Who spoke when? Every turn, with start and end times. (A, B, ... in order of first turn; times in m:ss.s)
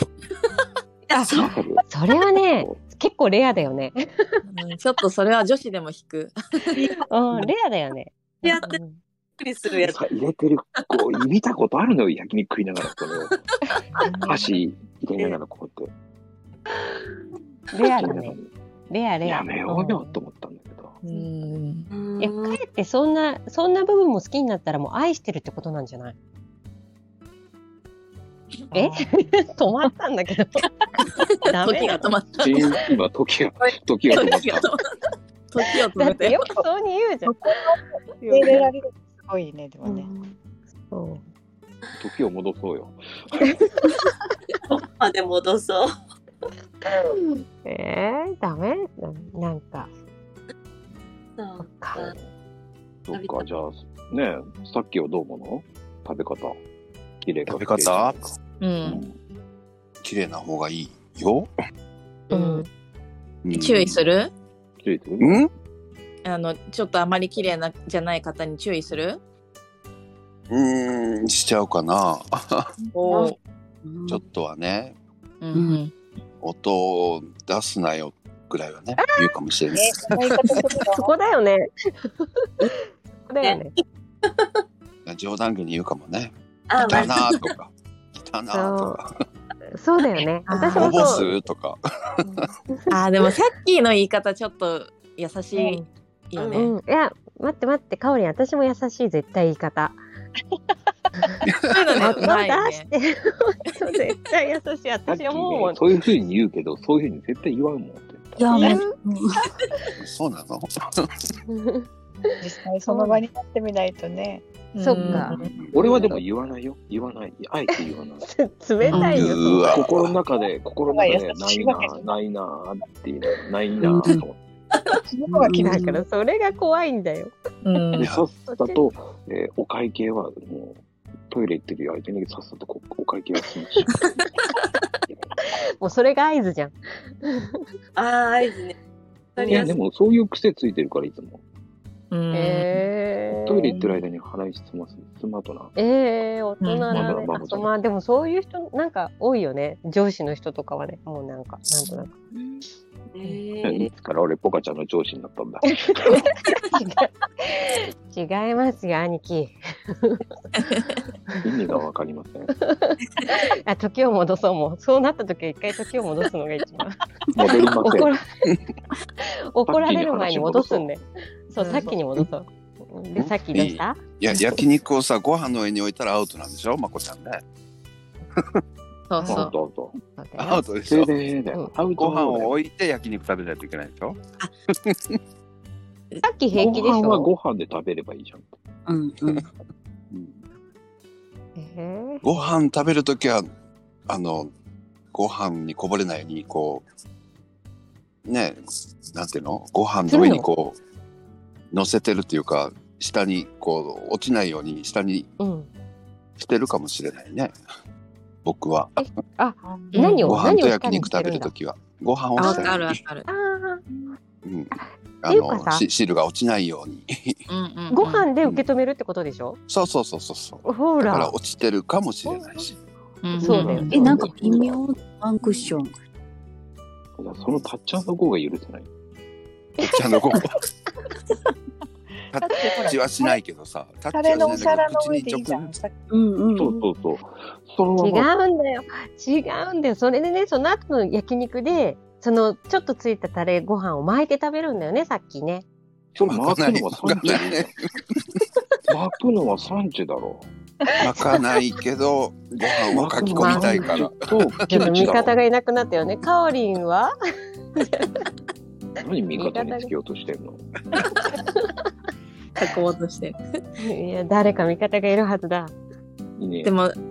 0:01.1-0:01.5 A
0:01.1-0:04.4 B
0:01.3-0:01.8 C
0:04.5-0:07.5 D
0:07.1-0:09.0 B
0:08.4-0:08.8 A
0:09.4-0:10.0 A
0:09.8-0:13.3 C
0:14.2-0:15.9 C
0:17.7-0:18.4 B
0:17.9-0:18.5 C
0:18.9-0:20.2 B
0:19.2-0:21.0 C
0:21.0-0:21.9 D
0:21.9-0:22.6 A
0:22.2-0:26.1 B
0:28.7-0:29.2 E
0:28.7-0:32.1 B
0:31.1-0:32.8 D
0:32.4-0:34.7 C
0:34.1-0:34.8 D
0:35.5-0:36.6 D
0:36.0-0:37.3 B
0:37.5-0:37.8 E
0:38.2-0:38.7 B
0:38.3-0:40.1 E
0:39.8-0:40.3 B
0:40.9-0:41.2 B
0:42.0-0:43.6 C
0:44.7-0:45.9 A
0:46.9-0:49.9 B
0:51.4-0:52.1 A
0:51.6-0:52.1 B
0:53.1-0:56.6 C
0:53.1-0:53.4 A
0:57.2-0:59.1 C
0:57.4-0:58.2 F
0:58.6-0:59.0 D
1:00.0-1:01.5 F
1:02.3-1:02.7 B
1:02.3-1:02.6 D
1:03.4-1:04.0 F
1:03.5-1:04.3 D
1:04.8-1:05.4 C
1:05.2-1:05.5 F
1:06.2-1:09.2 D
1:10.5-1:12.7 F
1:12.9-1:13.4 D
1:13.8-1:14.2 G
1:14.1-1:15.0 F
1:15.4-1:15.9 D
1:15.5-1:15.8 G
1:16.4-1:20.5 F
1:19.0-1:19.3 B
1:19.7-1:21.1 E
1:20.9-1:23.7 B
1:24.2-1:24.5 A
1:25.0-1:26.3 F
1:26.7-1:27.4 A
1:26.8-1:29.1 F
1:28.5-1:29.0 B
1:29.7-1:31.3 B
1:30.5-1:31.2 D
1:30.7-1:32.5 F
1:32.2-1:32.9 B
1:32.9-1:36.7 D
1:35.5-1:35.8 B
1:36.4-1:36.7 A
1:36.5-1:40.0 B
1:41.7-1:42.9 D
1:42.0-1:45.8 B
1:45.1-1:48.6 C
1:48.4-1:49.4 G
1:48.6-1:48.9 B
1:50.0-1:51.3 F
1:51.5-1:53.2 B
1:52.4-1:54.4 E
1:54.7-1:55.5 D
1:54.8-1:56.2 B
1:55.7-1:58.2 C
1:58.2-1:59.8 B
1:58.9-1:59.4 G
1:59.0-2:00.2 F
1:59.6-2:04.4 C
2:00.9-2:02.1 E
2:03.8-2:04.2 G
2:05.1-2:05.8 E
2:05.3-2:06.0 G
2:05.5-2:07.3 B
2:07.6-2:08.1 D
2:08.0-2:14.0 C
2:08.5-2:08.8 B
2:15.4-2:17.6 B
2:18.0-2:18.8 A
2:19.3-2:19.7 A
2:19.5-2:21.4 C
2:22.1-2:22.9 D
2:22.3-2:23.7 B
2:23.3-2:25.7 C
2:23.7-2:24.0 D
2:25.8-2:32.1 B
2:26.6-2:27.1 D
2:26.9-2:27.7 C
2:32.3-2:33.9 A
2:33.6-2:36.3 C
2:35.6-2:40.3 B
2:40.6-2:41.0 D
2:41.4-2:42.5 C
2:42.6-2:48.2 B
2:47.3-2:48.1 C
2:49.2-2:54.0 B
2:49.6-2:50.9 C
2:51.6-2:51.9 D
2:53.2-2:57.4 F
2:58.4-2:58.6 F
2:59.1-2:59.5 D
2:59.2-3:00.0 C
3:00.2-3:00.6 B
3:00.4-3:01.1 F
3:00.9-3:02.5 C
3:02.0-3:04.2 F
3:04.8-3:05.2 F
3:06.2-3:07.3 B
3:06.5-3:08.6 C
3:08.8-3:09.5 G
3:10.1-3:10.4 F
3:11.6-3:12.2 B
3:12.2-3:13.5 F
3:14.1-3:14.5 F
3:15.1-3:16.8 F
3:18.2-3:18.6 F
3:19.1-3:20.8 F
3:20.1-3:20.5 B
3:21.7-3:25.3 F
3:25.4-3:25.7 B
3:26.4-3:27.5 F
3:28.4-3:29.0 F
3:29.0-3:31.5 B
3:29.6-3:30.0 E
3:29.9-3:30.4 D
3:30.2-3:33.0 F
3:32.4-3:33.2 D
3:32.4-3:32.7 B
3:33.3-3:33.8 B
3:34.4-3:37.4 F
3:34.7-3:35.8 B
3:37.5-3:38.3 D
3:37.9-3:39.6 B
3:39.7-3:42.8 F
3:40.6-3:41.3 B
3:43.2-3:44.1 D
3:43.4-3:44.2 B
3:43.4-3:45.0 C
3:43.4-3:46.0 G
3:47.2-3:48.9 C
3:49.8-3:50.2 B
3:49.8-3:50.6 F
3:52.3-3:55.7 F
3:52.4-3:53.4 E
3:54.1-3:56.0 E
3:56.1-3:56.8 G
3:56.5-3:58.3 C
3:58.0-4:05.6 B
4:06.1-4:07.7 C
4:06.3-4:08.0 F
4:08.9-4:10.5 C
4:11.0-4:15.2 F
4:12.9-4:15.4 C
4:13.4-4:13.9 D
4:14.7-4:17.1 B
4:17.8-4:18.1 B
4:19.0-4:21.0 C
4:19.3-4:19.9 B
4:22.6-4:23.4 D
4:23.8-4:25.7 B
4:26.4-4:26.7 C
4:26.6-4:27.0 D